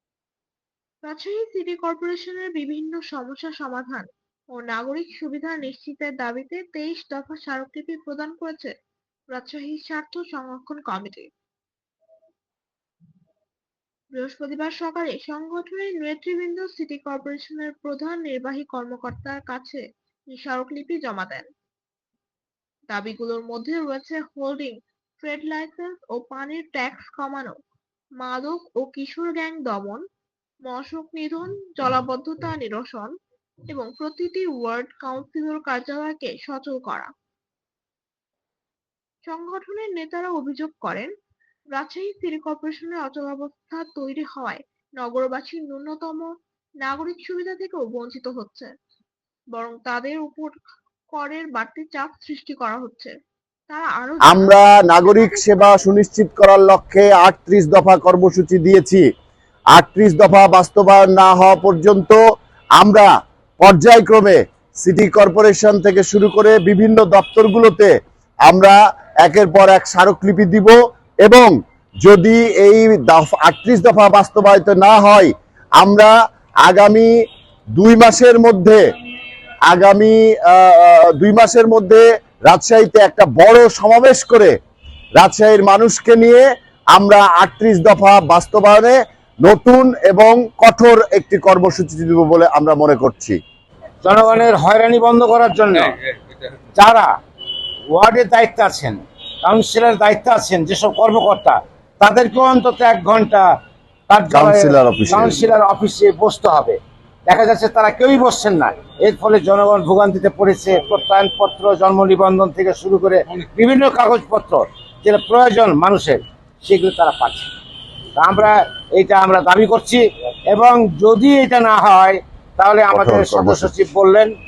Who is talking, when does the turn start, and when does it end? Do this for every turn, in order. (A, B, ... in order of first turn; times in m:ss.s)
0:01.0-0:08.7 A
0:09.3-0:11.3 A
0:14.2-0:21.5 A
0:22.9-0:27.6 A
0:28.2-0:30.0 A
0:30.7-0:33.1 A
0:33.7-0:37.1 A
0:39.3-0:41.1 A
0:41.8-0:46.3 A
0:46.8-0:48.7 A
0:49.5-0:50.6 A
0:51.1-0:53.1 A
0:53.7-0:55.8 A
0:54.3-0:59.0 B
0:59.8-1:02.2 B
1:02.8-1:03.1 B
1:03.6-1:07.9 B
1:08.5-1:16.1 B
1:16.6-1:17.1 B
1:17.8-1:18.8 B
1:19.7-1:24.5 B
1:25.2-1:26.4 B
1:27.0-1:33.4 B
1:34.0-1:36.0 C
1:36.8-1:37.1 C
1:37.9-1:43.5 C
1:44.1-1:57.5 C
1:44.3-1:45.4 B
1:58.2-2:04.3 C
2:02.9-2:03.7 B